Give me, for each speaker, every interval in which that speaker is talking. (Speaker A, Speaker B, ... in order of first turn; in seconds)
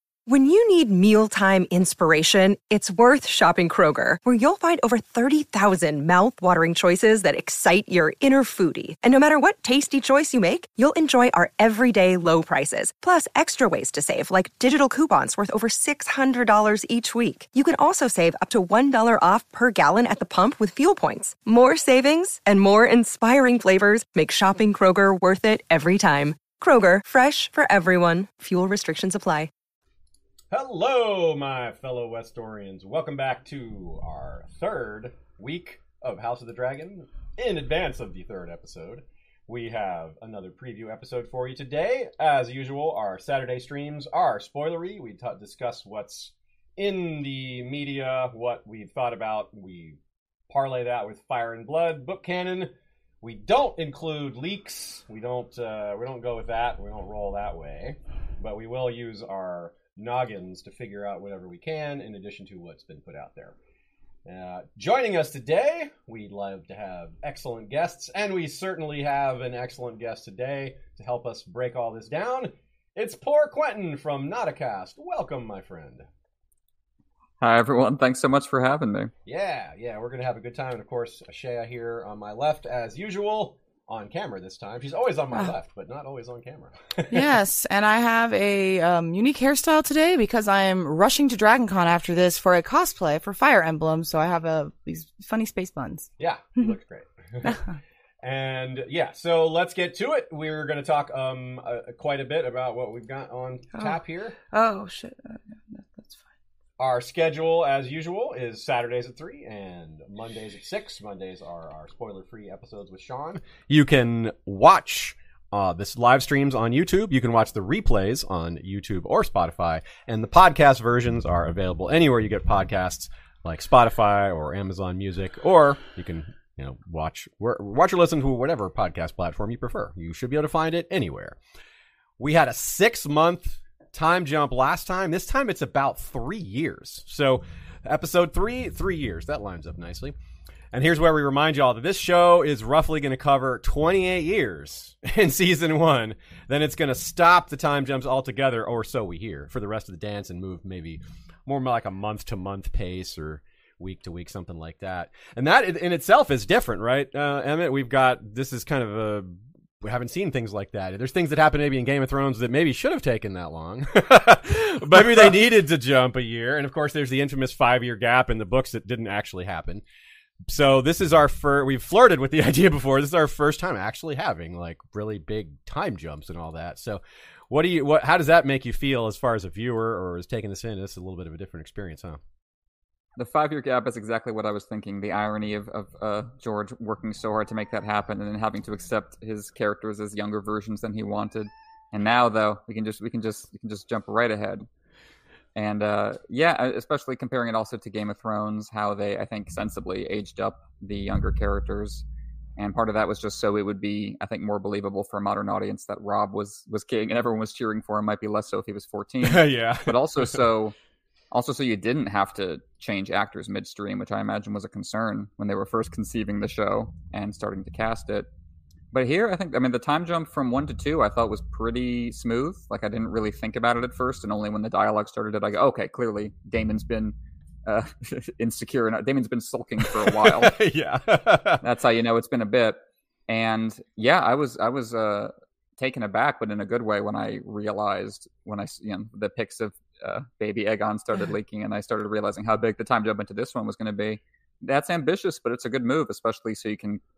Speaker A: 0.2-29.5
Speaker B: 30.5-50.0, 50.5-63.5, 64.2-76.1, 79.2-87.2, 96.2-97.6, 98.2-104.3, 106.8-131.4, 132.2-140.1, 140.7-169.8, 170.5-182.2, 209.2-210.4, 229.8-231.6
Speaker C: 77.4-79.1, 183.2-194.6, 195.5-202.0, 202.6-210.7, 211.3-218.3, 218.9-230.6, 231.6-247.0
Speaker D: 87.1-96.7, 97.4-97.7, 104.5-106.3